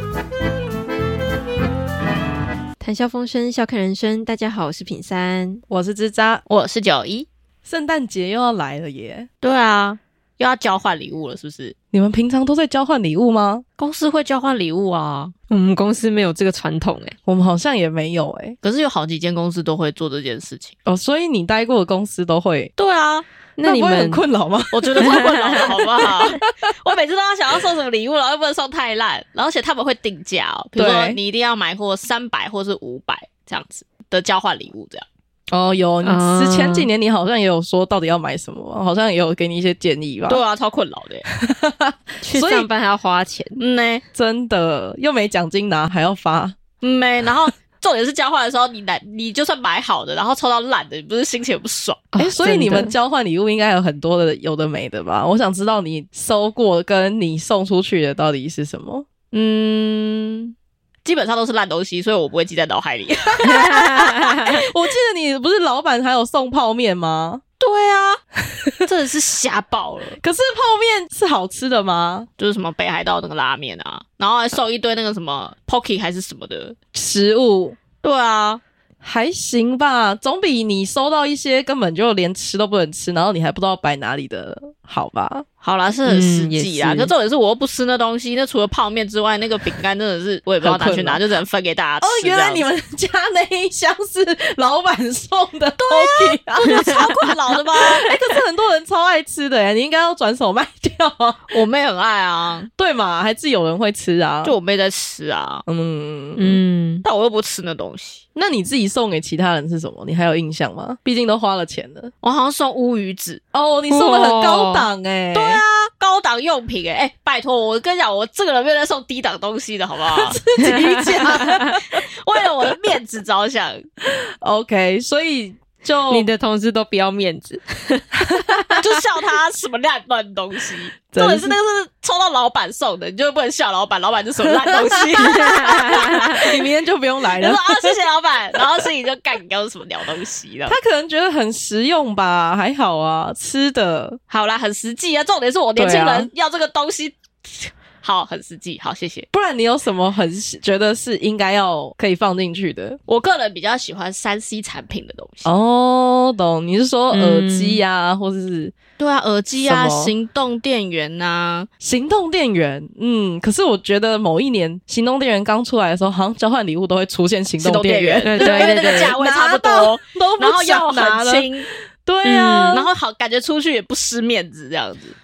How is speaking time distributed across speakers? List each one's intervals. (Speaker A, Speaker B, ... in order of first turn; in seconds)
Speaker A: 2.8-5.6, 15.5-17.1, 23.6-24.2, 24.9-25.6, 36.0-36.9, 42.2-43.6, 52.1-52.9, 63.5-64.4, 86.0-87.1, 106.4-107.0, 113.9-114.9, 120.7-121.6, 126.1-128.8, 135.2-136.3, 157.1-157.8, 168.2-169.2, 172.2-172.9
Speaker B: 5.7-6.4, 7.6-9.3, 11.9-13.6, 17.2-18.6, 20.9-22.7, 23.6-25.6, 30.8-31.2, 35.5-40.4, 41.4-42.7, 44.1-46.6, 52.2-59.0, 63.2-67.4, 70.2-72.3, 76.9-77.8, 79.0-85.4, 90.6-91.2, 92.0-97.1, 97.9-101.5, 102.8-104.5, 105.7-106.6, 108.3-112.1, 113.5-115.6, 120.1-122.0, 124.0-126.3, 128.2-128.7, 131.1-131.5, 134.7-135.1, 136.3-137.9, 140.7-144.2, 145.8-146.3, 149.3-153.0, 155.4-158.7, 159.6-160.1, 161.8-172.9
Speaker C: 6.5-7.3, 9.4-11.7, 13.8-15.3, 18.6-20.7, 22.8-23.2, 24.7-35.1, 40.3-41.2, 43.6-44.0, 46.8-52.1, 59.3-60.5, 61.0-64.6, 67.6-68.2, 68.8-70.2, 72.4-76.8, 78.0-78.6, 85.6-92.7, 95.8-98.1, 101.5-102.7, 104.4-105.6, 107.0-108.2, 112.2-113.4, 115.3-120.4, 121.8-123.8, 128.8-136.7, 137.4-140.8, 144.3-149.3, 153.1-155.5, 159.0-161.7, 167.6-171.7, 172.7-175.1